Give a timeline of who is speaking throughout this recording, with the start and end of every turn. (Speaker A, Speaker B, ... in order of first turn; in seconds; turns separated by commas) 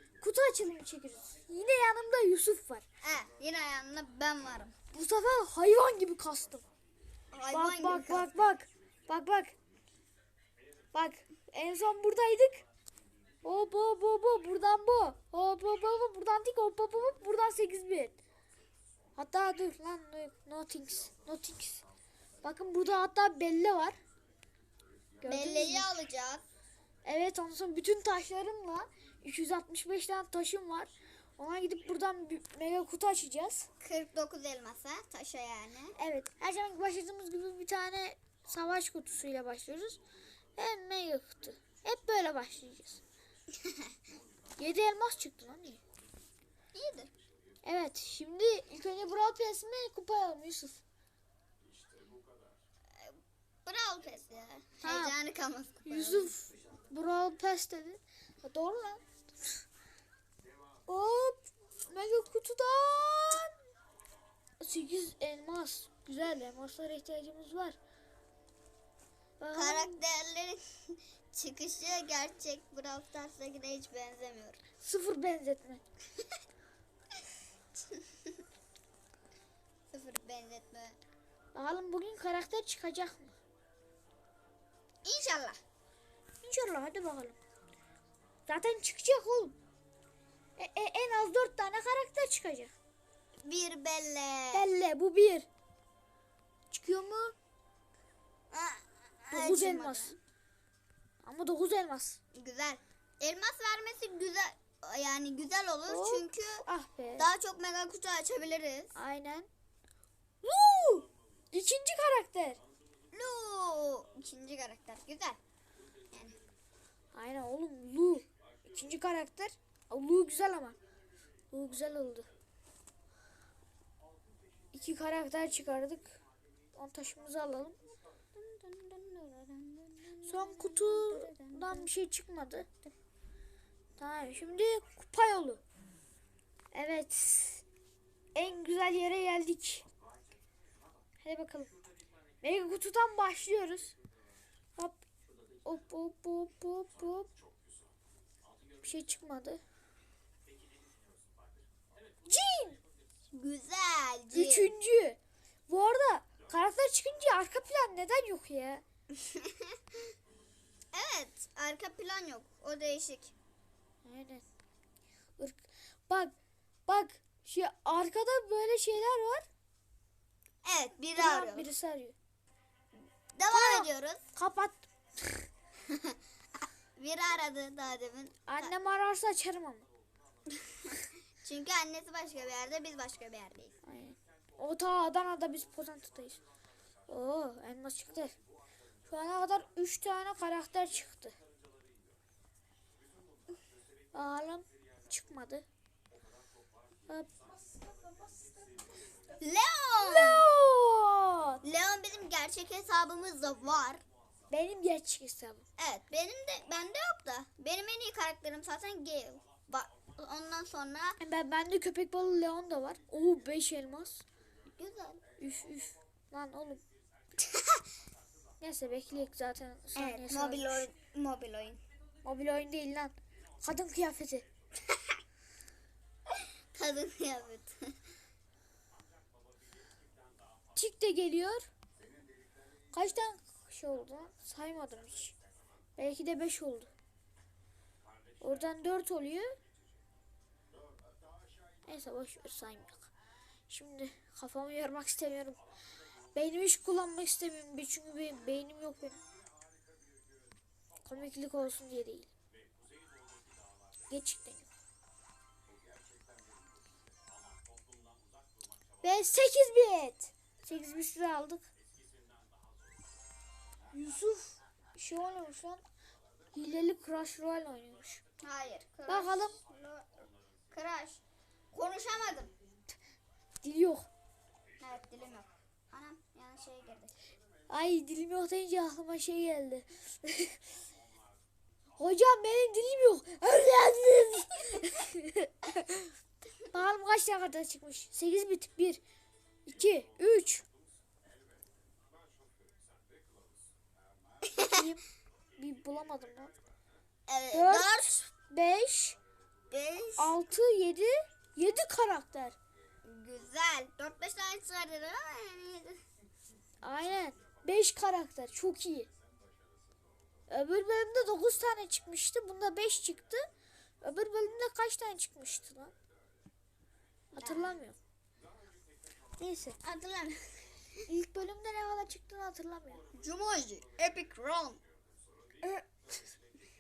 Speaker A: 0.2-2.8, Speaker B: 3.0-4.8, Speaker A: 4.9-6.7, Speaker B: 7.3-8.3, Speaker A: 7.5-9.5, Speaker A: 10.9-12.6, Speaker A: 13.4-18.2, Speaker A: 19.2-21.9, Speaker A: 22.4-24.0, Speaker A: 25.2-25.9, Speaker B: 25.2-26.4, Speaker A: 27.1-33.7, Speaker B: 33.8-35.9, Speaker A: 36.0-40.0, Speaker A: 40.6-43.0, Speaker A: 44.6-45.8, Speaker B: 46.7-47.1, Speaker A: 47.6-50.8, Speaker B: 53.0-56.3, Speaker A: 54.8-55.1, Speaker A: 55.9-59.0, Speaker A: 60.9-63.5, Speaker A: 64.6-67.8, Speaker A: 69.4-70.0, Speaker B: 69.5-74.6, Speaker A: 74.8-75.8, Speaker B: 79.9-81.0, Speaker A: 81.5-83.4, Speaker B: 85.0-85.6, Speaker A: 86.4-87.4, Speaker A: 88.5-89.5, Speaker A: 90.6-92.7, Speaker B: 93.4-94.7, Speaker A: 94.5-95.5, Speaker A: 96.7-97.3, Speaker B: 98.5-100.2, Speaker A: 99.3-100.2, Speaker A: 101.2-102.2, Speaker B: 102.3-106.7, Speaker A: 105.9-107.3, Speaker B: 107.2-108.9, Speaker A: 109.0-109.5, Speaker A: 110.4-112.6, Speaker B: 113.1-115.4, Speaker B: 116.1-116.4, Speaker A: 117.1-120.8, Speaker A: 121.5-122.3, Speaker A: 124.7-126.2, Speaker A: 126.8-127.8, Speaker B: 128.3-131.9, Speaker A: 130.3-132.7, Speaker A: 134.0-135.6, Speaker A: 136.7-137.6, Speaker A: 138.3-139.9, Speaker A: 141.2-141.7, Speaker A: 142.4-143.9, Speaker A: 145.7-147.3, Speaker A: 148.8-149.6, Speaker A: 152.2-152.8, Speaker B: 153.3-154.7, Speaker A: 154.3-158.8, Speaker B: 159.2-159.5, Speaker B: 160.9-163.3, Speaker A: 164.0-164.4, Speaker A: 165.4-166.3, Speaker A: 166.9-169.5, Speaker B: 170.6-171.7, Speaker A: 171.2-172.2, Speaker B: 173.3-174.2, Speaker A: 173.5-175.5, Speaker B: 175.9-176.2, Speaker B: 177.0-178.7, Speaker A: 178.5-179.9, Speaker B: 180.6-183.7, Speaker A: 183.8-186.4, Speaker A: 187.1-188.3, Speaker A: 189.1-191.3, Speaker A: 194.1-195.7, Speaker B: 199.4-200.5, Speaker A: 200.0-201.6, Speaker B: 201.6-204.0, Speaker A: 204.5-205.7, Speaker B: 205.8-211.2, Speaker A: 211.2-214.2, Speaker B: 214.8-215.2, Speaker A: 215.4-216.8, Speaker B: 217.4-217.8, Speaker A: 218.6-220.9, Speaker B: 220.0-221.8, Speaker A: 222.2-224.5, Speaker B: 226.3-227.8, Speaker A: 230.8-231.7, Speaker A: 232.9-235.3, Speaker A: 236.0-236.9, Speaker A: 238.4-239.6, Speaker A: 241.8-243.1, Speaker A: 243.7-245.6, Speaker A: 246.3-249.2, Speaker A: 251.1-252.3, Speaker A: 254.1-254.7, Speaker A: 259.0-261.6, Speaker A: 263.9-265.8, Speaker A: 266.5-268.2, Speaker B: 268.4-272.5, Speaker A: 269.1-269.6, Speaker A: 273.6-274.1, Speaker B: 274.8-277.1, Speaker A: 277.7-280.6, Speaker A: 282.0-286.1, Speaker A: 286.7-289.0, Speaker A: 289.7-290.6, Speaker A: 294.6-295.1, Speaker A: 295.6-296.5, Speaker B: 297.3-298.3, Speaker A: 297.5-299.2, Speaker B: 299.7-300.4, Speaker A: 300.2-302.6, Speaker B: 303.0-306.0, Speaker A: 306.8-309.1, Speaker A: 310.5-313.4, Speaker A: 314.0-315.9, Speaker B: 317.3-317.8, Speaker A: 317.4-318.0, Speaker A: 319.4-319.8, Speaker B: 319.8-321.1, Speaker A: 321.1-323.0, Speaker B: 323.1-324.8